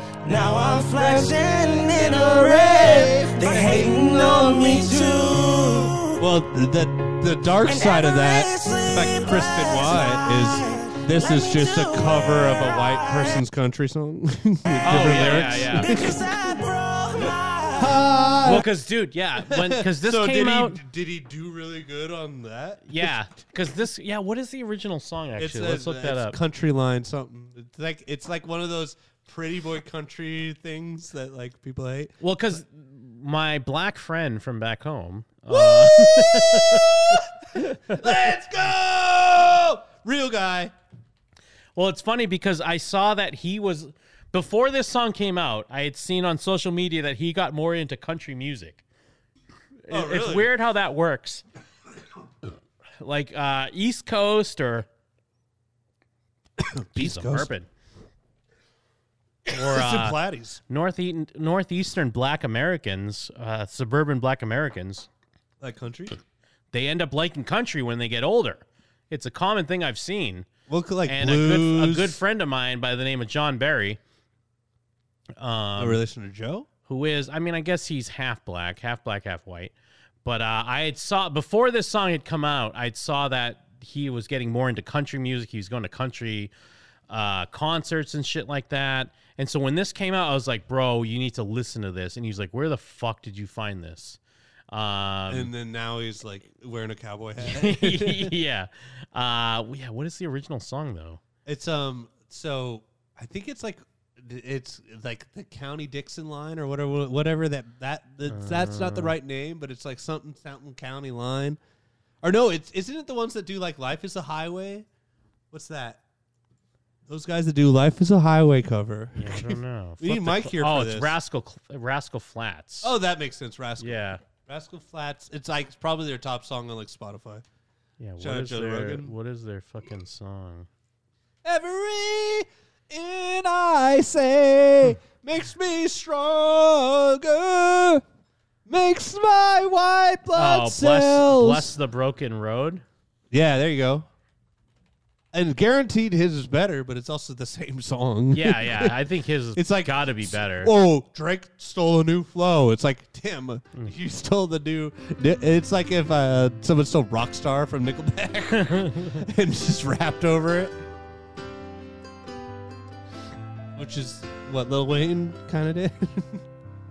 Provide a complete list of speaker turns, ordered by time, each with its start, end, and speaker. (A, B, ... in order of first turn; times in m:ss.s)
0:00.2-0:06.2 A
0:00.3-0:04.9 B
0:06.2-0:16.4 B
0:07.6-0:13.4 A
0:14.8-0:15.9 C
0:15.8-0:18.1 A
0:17.2-0:18.7 B
0:18.4-0:20.8 C
0:19.4-0:23.1 B
0:22.9-0:26.4 C
0:25.4-0:32.2 B
0:32.2-0:38.2 C
0:35.5-0:40.7 B
0:41.8-0:48.8 C
0:49.9-0:51.4 C
0:49.9-0:50.5 B
0:53.0-0:54.9 C
0:56.6-0:57.5 B
0:57.0-0:57.7 C
0:59.5-1:00.6 B
0:59.5-1:00.2 C
1:00.7-1:05.1 C
1:05.6-1:06.2 B
1:06.7-1:10.5 C
1:10.7-1:12.2 B
1:11.1-1:14.0 C
1:15.4-1:16.0 C
1:15.8-1:16.7 B
1:16.9-1:19.7 C
1:20.2-1:26.5 C
1:27.1-1:34.2 C
1:34.7-1:35.5 C
1:35.3-1:38.3 B
1:37.4-1:41.2 C
1:41.4-1:51.6 B
1:48.3-1:49.1 C
1:52.2-1:54.9 B
1:55.5-1:56.0 B
1:57.1-2:01.2 B
1:59.2-2:02.9 C
2:02.8-2:07.4 B
2:03.8-2:04.2 C
2:08.0-2:10.7 C
2:08.2-2:09.1 B
2:11.4-2:18.0 B
2:18.7-2:21.7 B
2:20.4-2:22.8 C
2:23.3-2:24.1 B
2:25.3-2:29.0 B
2:28.3-2:30.7 C
2:29.6-2:40.8 B
2:38.7-2:39.2 C
2:43.8-2:46.4 B